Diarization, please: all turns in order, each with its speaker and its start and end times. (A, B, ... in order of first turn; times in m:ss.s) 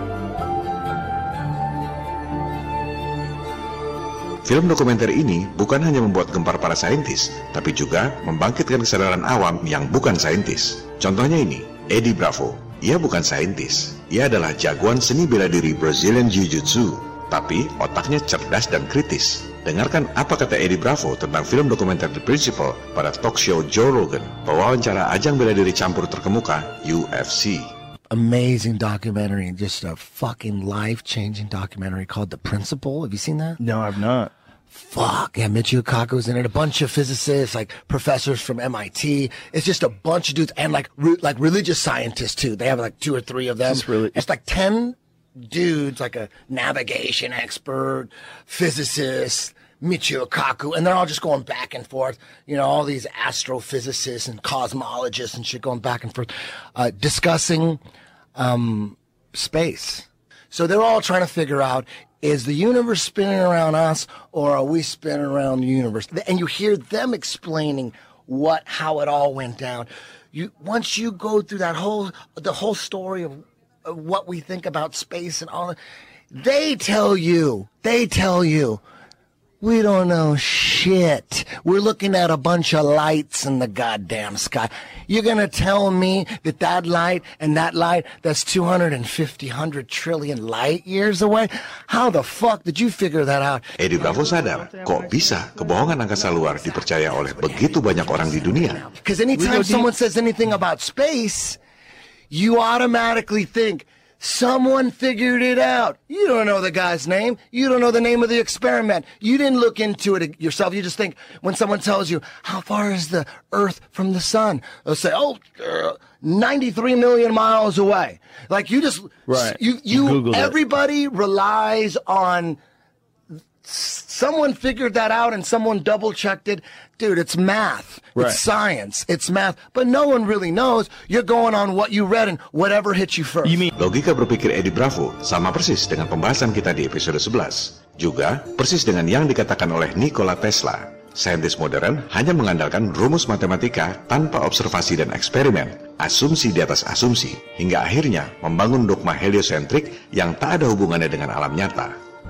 0:04.5-0:27.7 A
0:28.1-0:33.6 B
0:33.6-0:34.3 C
0:34.7-0:45.0 B
0:43.7-0:44.2 C
0:45.5-0:57.8 B
0:58.4-1:15.8 B
1:16.3-1:18.8 B
1:19.6-1:33.6 B
1:33.8-1:38.9 A
1:38.9-1:41.6 B
1:39.3-1:39.8 C
1:42.3-2:02.6 B
1:59.3-2:00.6 C
2:03.6-2:13.7 B
2:08.2-2:08.4 C
2:13.8-2:32.0 A